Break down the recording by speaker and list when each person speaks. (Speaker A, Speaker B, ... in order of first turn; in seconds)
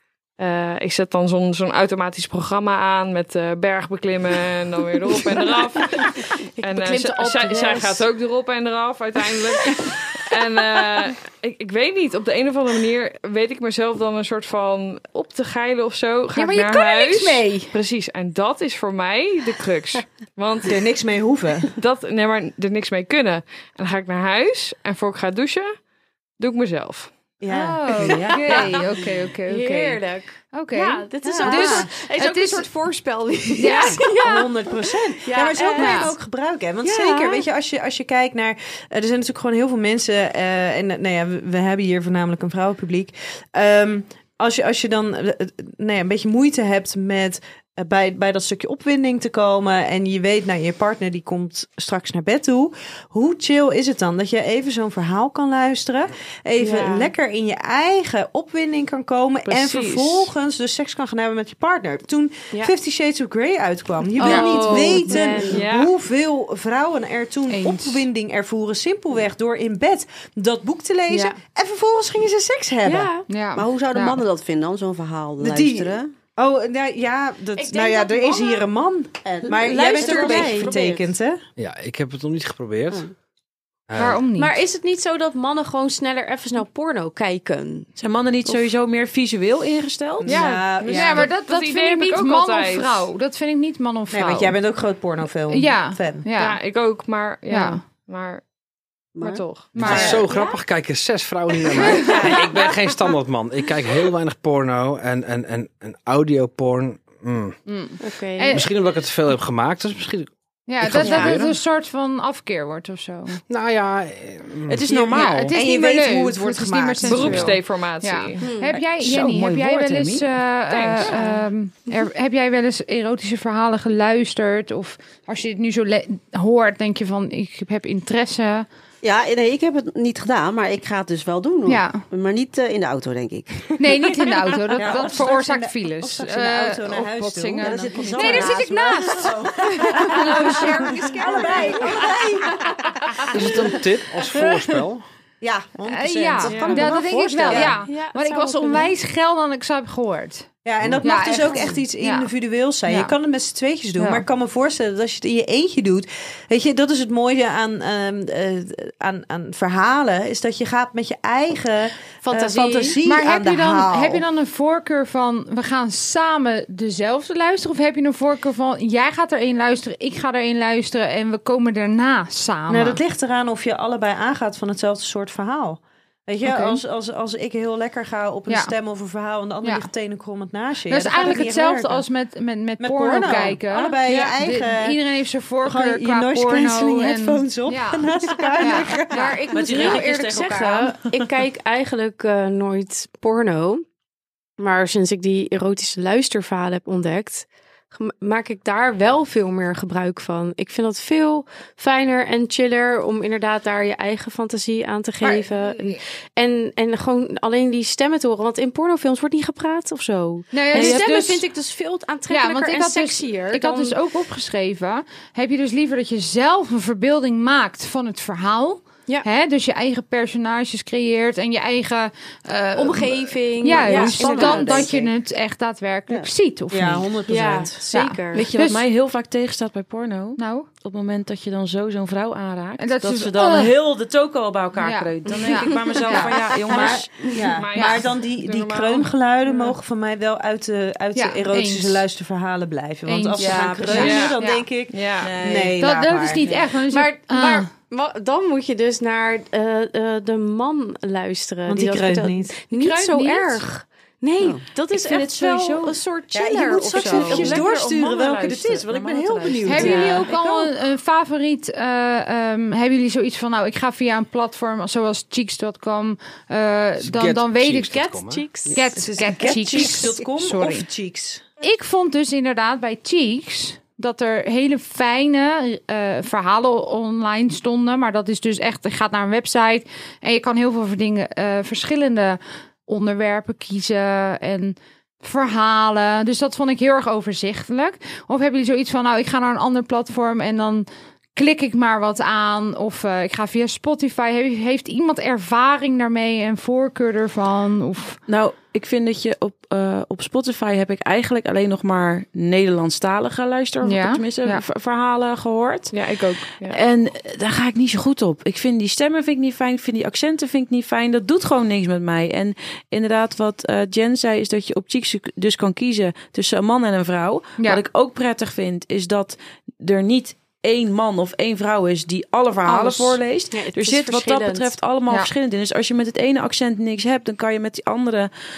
Speaker A: 0.4-20.8, 21.7-25.7, 26.4-27.1, 59.5-60.3, 65.5-65.9, 90.2-93.1, 96.4-98.4, 99.2-100.1, 117.0-118.5, 120.7-121.2, 146.4-146.7, 237.4-239.1, 243.9-244.4, 244.9-245.3, 305.9-306.8
Speaker B: 5.4-6.1, 6.6-8.0, 28.0-28.8, 29.4-36.1, 36.8-37.4, 56.6-57.1, 64.2-65.6, 71.1-71.3, 72.8-73.3, 77.5-78.7, 79.5-81.0, 84.3-87.9, 100.3-100.6, 101.9-102.4, 108.0-108.6, 111.0-111.4, 118.4-118.8, 147.8-148.9, 162.2-163.0, 189.1-193.8, 194.6-213.9, 222.8-224.9, 227.3-228.4, 246.9-257.6, 259.7-260.2, 267.9-268.8, 323.5-324.8
Speaker C: 16.4-17.7, 27.5-30.0, 30.5-32.7, 33.5-34.2, 35.8-36.1, 64.2-64.5, 67.5-68.0, 73.3-74.2, 84.0-84.5, 90.9-94.5, 95.5-96.6, 97.5-97.8, 99.7-100.2, 107.7-108.7, 110.7-113.4, 115.1-128.7, 131.7-132.0, 133.8-139.3, 139.9-141.8, 145.9-150.5, 151.0-152.3, 152.9-153.1, 163.0-173.0, 176.4-176.8, 179.6-179.9, 180.9-189.6, 205.2-206.0, 210.5-211.4, 212.3-227.1, 227.9-228.8, 230.4-230.7, 232.8-233.7, 234.8-237.0, 237.7-238.0, 241.1-242.0, 243.1-244.7, 245.8-247.7, 252.7-253.6, 259.6-267.9, 268.7-270.9, 271.6-298.2, 303.8-304.6
Speaker D: 20.6-21.7, 27.4-28.7, 31.2-31.8, 34.0-73.1, 75.4-81.4, 90.2-91.3, 94.1-96.2, 99.8-100.2, 114.9-117.6, 134.8-142.6, 145.4-147.8, 150.6-164.2, 172.7-182.1, 182.8-185.0, 185.6-189.3, 226.7-227.8, 236.7-246.4, 251.7-252.6, 256.3-260.7, 268.9-271.4
Speaker E: 64.6-65.2, 73.5-76.1, 79.2-81.0, 99.2-99.4, 129.0-133.7, 137.6-142.0, 146.6-147.7, 223.7-225.1, 254.4-254.7
Speaker F: 81.6-83.1, 83.9-84.2, 99.7-107.5, 108.5-111.5, 113.5-114.8, 143.3-145.0, 267.0-268.4
Speaker G: 88.0-90.4, 114.7-115.5, 118.7-120.3, 189.5-191.2, 210.7-211.1, 228.3-237.1, 243.3-244.2, 245.2-245.8, 254.9-256.0, 256.9-260.2, 298.3-328.3